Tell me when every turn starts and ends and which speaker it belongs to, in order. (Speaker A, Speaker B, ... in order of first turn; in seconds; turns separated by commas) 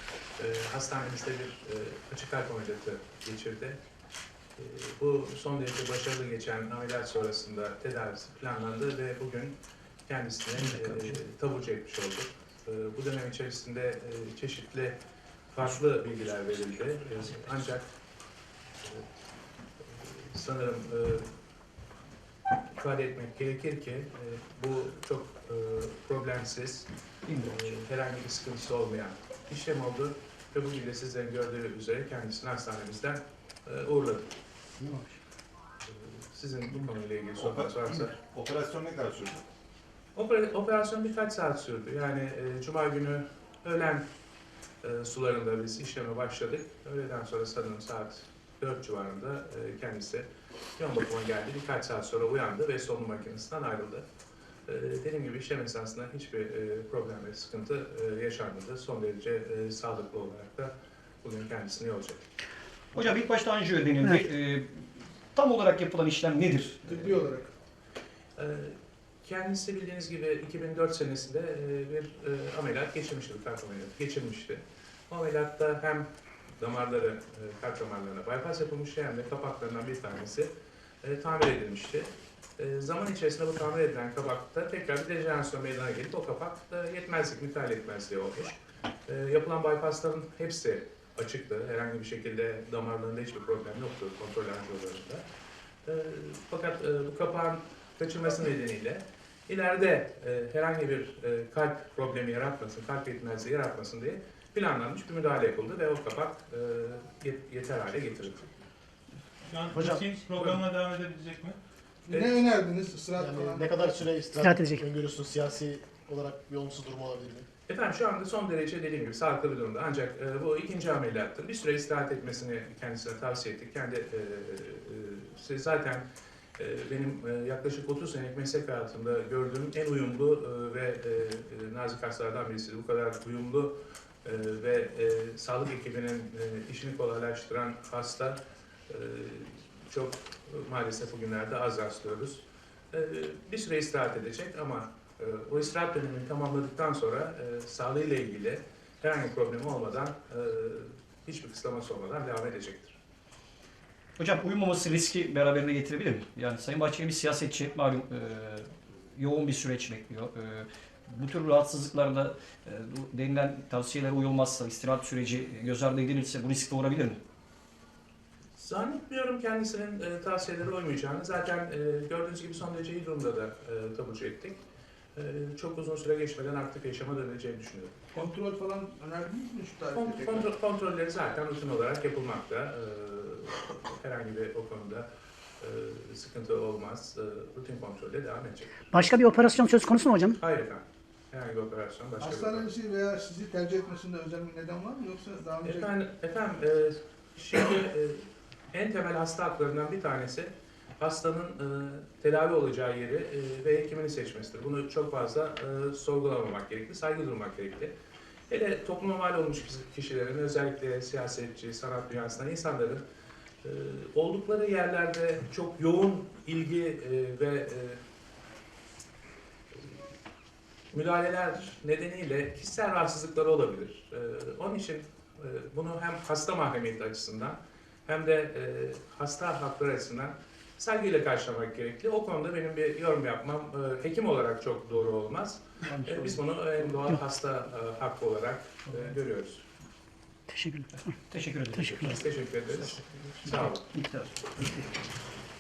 Speaker A: 0.4-3.8, Speaker A: 4.6-9.6, Speaker A: 10.1-15.0, Speaker A: 15.5-17.9, Speaker A: 18.8-19.1, Speaker A: 19.8-21.3, Speaker A: 22.7-34.3, Speaker A: 35.8-38.1, Speaker B: 37.4-39.4, Speaker A: 40.1-44.0, Speaker A: 44.8-54.0, Speaker A: 54.7-62.2, Speaker C: 62.9-66.9, Speaker D: 66.8-67.5, Speaker A: 68.4-76.1, Speaker A: 76.6-80.5, Speaker A: 81.0-95.2, Speaker A: 95.9-108.5, Speaker E: 109.5-111.6, Speaker D: 112.1-114.0, Speaker A: 112.1-112.4, Speaker F: 113.2-117.5, Speaker G: 114.4-114.8, Speaker A: 117.7-126.0, Speaker A: 126.6-153.0, Speaker C: 154.2-167.2, Speaker A: 168.6-174.6, Speaker A: 175.2-178.1, Speaker D: 178.1-180.5, Speaker A: 179.9-185.1, Speaker A: 185.6-189.1, Speaker G: 188.9-190.4, Speaker A: 190.4-192.7, Speaker D: 192.2-195.9, Speaker A: 195.6-207.9, Speaker A: 208.5-213.0, Speaker A: 213.6-218.0, Speaker A: 220.9-239.7, Speaker C: 235.9-236.4, Speaker G: 240.5-241.1, Speaker C: 240.9-242.2, Speaker A: 241.9-243.8, Speaker C: 243.4-244.8